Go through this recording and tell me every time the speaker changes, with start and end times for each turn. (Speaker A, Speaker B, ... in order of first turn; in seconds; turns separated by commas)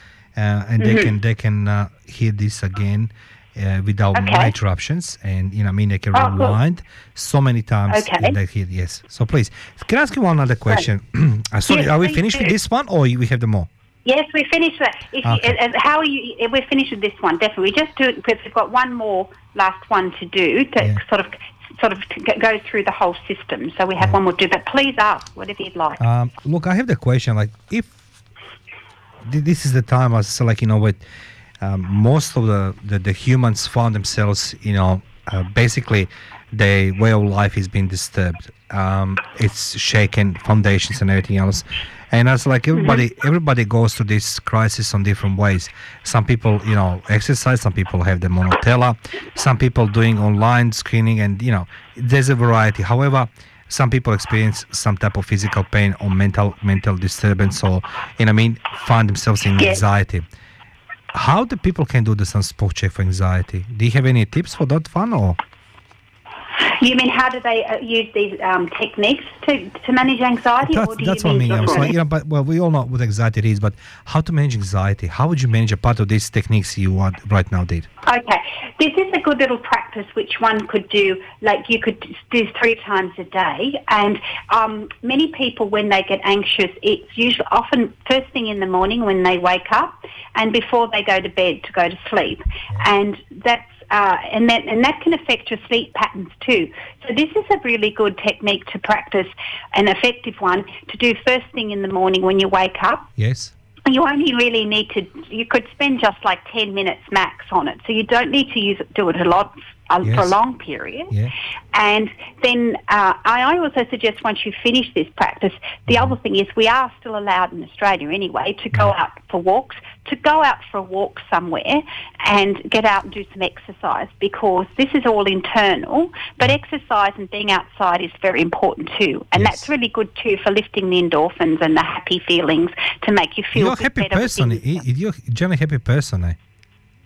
Speaker A: 0.4-13.7, Speaker B: 0.8-1.1, Speaker B: 4.2-4.5, Speaker B: 6.2-6.5, Speaker B: 7.9-8.3, Speaker B: 11.7-12.5, Speaker B: 14.1-26.0, Speaker A: 15.2-15.6, Speaker A: 26.0-27.9, Speaker A: 29.2-31.0, Speaker A: 31.6-60.3, Speaker A: 61.1-65.4, Speaker B: 66.6-71.9, Speaker A: 70.6-77.9, Speaker B: 78.0-103.1, Speaker A: 103.2-103.5, Speaker B: 103.9-111.2, Speaker A: 110.0-110.4, Speaker B: 111.7-134.8, Speaker A: 115.9-116.2, Speaker A: 129.3-129.7, Speaker A: 133.5-136.4